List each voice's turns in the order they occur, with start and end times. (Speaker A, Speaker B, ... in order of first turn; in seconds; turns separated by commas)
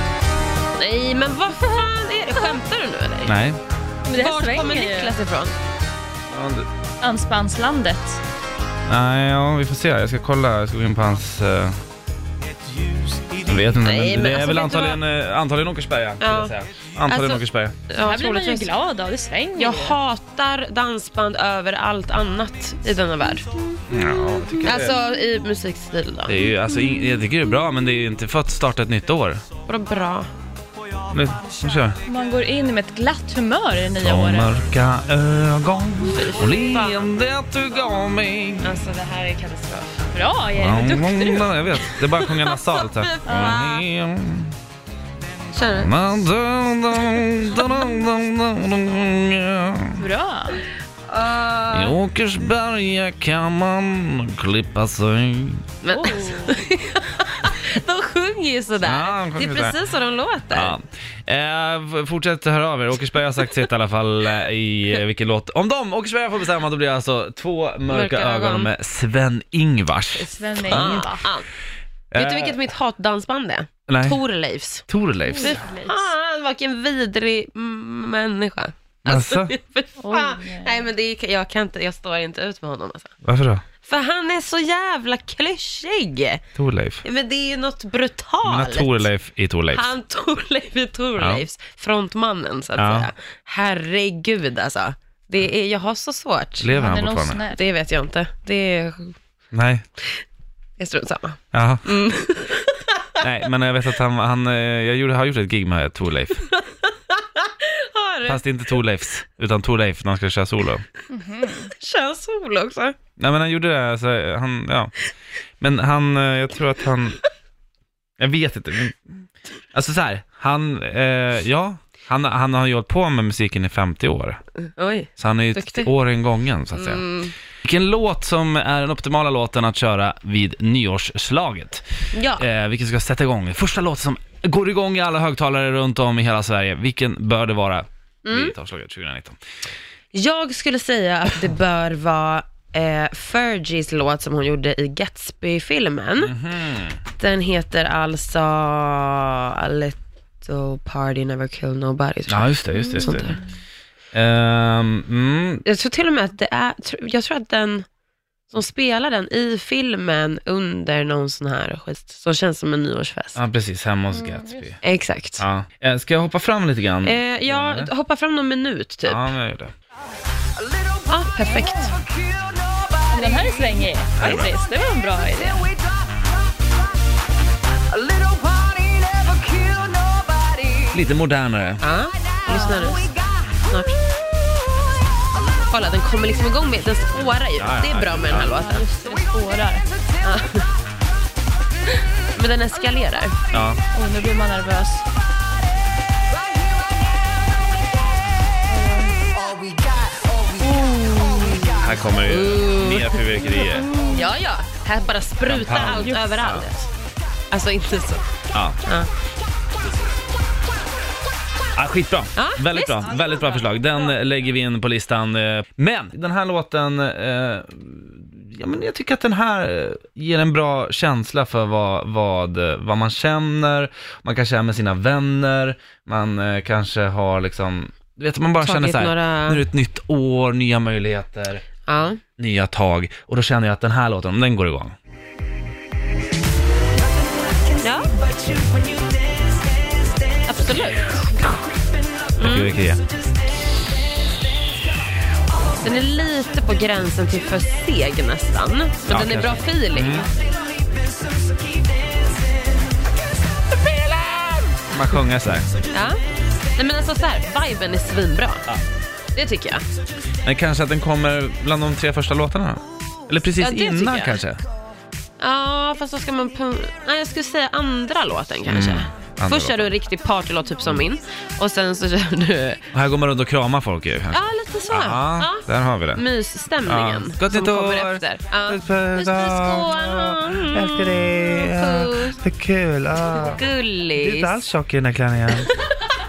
Speaker A: 0.8-3.4, Speaker B: 3.2-3.6, Speaker C: 4.0-5.2, Speaker A: 4.1-5.6, Speaker B: 6.3-6.7, Speaker C: 7.0-8.2, Speaker B: 8.9-11.8, Speaker B: 13.2-17.8, Speaker A: 13.8-15.0, Speaker A: 16.2-16.5, Speaker A: 17.1-18.7, Speaker C: 18.0-20.0, Speaker A: 19.5-23.8, Speaker B: 23.9-24.9, Speaker A: 24.6-26.5, Speaker B: 26.3-29.4, Speaker A: 29.7-30.3, Speaker B: 31.1-32.0, Speaker C: 32.0-34.5, Speaker B: 34.0-38.7, Speaker A: 36.1-37.1, Speaker A: 38.6-40.0, Speaker C: 40.1-41.5, Speaker B: 40.5-44.5, Speaker A: 41.8-43.9, Speaker C: 43.2-43.6, Speaker A: 45.5-45.9, Speaker B: 45.8-50.0, Speaker C: 50.0-50.6, Speaker A: 51.1-52.0, Speaker B: 51.7-55.6, Speaker A: 55.8-60.8, Speaker C: 55.9-56.5, Speaker B: 58.8-59.8, Speaker B: 60.5-71.2, Speaker A: 67.9-68.7, Speaker C: 70.2-71.2, Speaker A: 70.7-71.5, Speaker B: 72.1-72.6, Speaker A: 72.1-74.9, Speaker B: 73.9-74.2, Speaker B: 74.9-75.6, Speaker C: 75.3-76.1, Speaker A: 75.4-83.1, Speaker B: 79.1-79.5, Speaker C: 80.0-80.9, Speaker B: 83.2-83.6, Speaker A: 83.8-86.4, Speaker B: 86.6-87.0, Speaker A: 87.0-89.1, Speaker B: 88.4-89.9, Speaker A: 89.7-96.7, Speaker B: 91.2-91.4, Speaker B: 92.8-93.1, Speaker B: 96.6-97.4, Speaker C: 96.7-97.6, Speaker A: 97.5-99.2, Speaker B: 99.5-99.8, Speaker A: 100.8-103.1, Speaker B: 101.5-101.9, Speaker B: 103.2-106.5, Speaker A: 106.5-108.4, Speaker B: 108.2-110.8, Speaker C: 111.1-111.7, Speaker A: 111.6-113.0, Speaker B: 113.2-114.9, Speaker B: 115.6-117.2, Speaker B: 118.2-119.1, Speaker B: 119.7-124.4, Speaker A: 124.7-125.9, Speaker B: 125.2-127.0, Speaker A: 126.7-127.3, Speaker B: 127.6-131.8, Speaker A: 132.1-132.4, Speaker B: 132.3-139.4, Speaker A: 138.2-138.5, Speaker A: 140.1-146.3, Speaker B: 146.2-147.0, Speaker A: 147.2-153.4, Speaker B: 152.3-153.4, Speaker B: 154.1-155.6, Speaker A: 155.6-157.8, Speaker A: 158.5-163.4, Speaker B: 163.3-164.8, Speaker C: 164.1-164.7, Speaker A: 164.8-165.4, Speaker B: 165.4-167.9, Speaker A: 167.0-169.2, Speaker B: 169.1-169.7, Speaker A: 171.0-172.0, Speaker C: 171.4-172.1, Speaker C: 173.0-175.8, Speaker B: 174.2-174.5, Speaker B: 180.9-181.8, Speaker A: 181.8-184.0, Speaker C: 182.4-183.1, Speaker A: 185.7-188.9, Speaker B: 187.6-188.5, Speaker C: 187.9-189.9, Speaker A: 190.2-190.7, Speaker A: 192.3-193.4, Speaker B: 193.5-193.8, Speaker C: 193.9-195.0, Speaker C: 198.7-199.2, Speaker C: 200.6-201.8, Speaker A: 201.3-206.9, Speaker B: 201.8-203.9, Speaker C: 203.8-204.3, Speaker B: 205.4-206.7, Speaker A: 207.5-208.2, Speaker B: 208.5-208.8, Speaker A: 208.8-209.1, Speaker B: 211.7-231.6, Speaker A: 212.3-213.4, Speaker A: 228.6-229.6, Speaker A: 231.8-232.2, Speaker B: 232.4-234.9, Speaker A: 237.8-238.2, Speaker A: 240.5-241.2, Speaker A: 242.4-242.7, Speaker B: 242.4-243.0, Speaker A: 245.8-250.3, Speaker B: 249.1-250.3, Speaker B: 254.9-255.7, Speaker A: 255.9-256.2, Speaker A: 256.7-258.6, Speaker A: 259.3-259.8, Speaker B: 260.4-264.6, Speaker A: 263.6-264.4, Speaker A: 265.4-272.9, Speaker B: 268.7-269.9, Speaker B: 272.9-276.2, Speaker A: 274.3-282.4, Speaker B: 276.8-283.6, Speaker A: 283.3-284.6, Speaker B: 284.1-285.7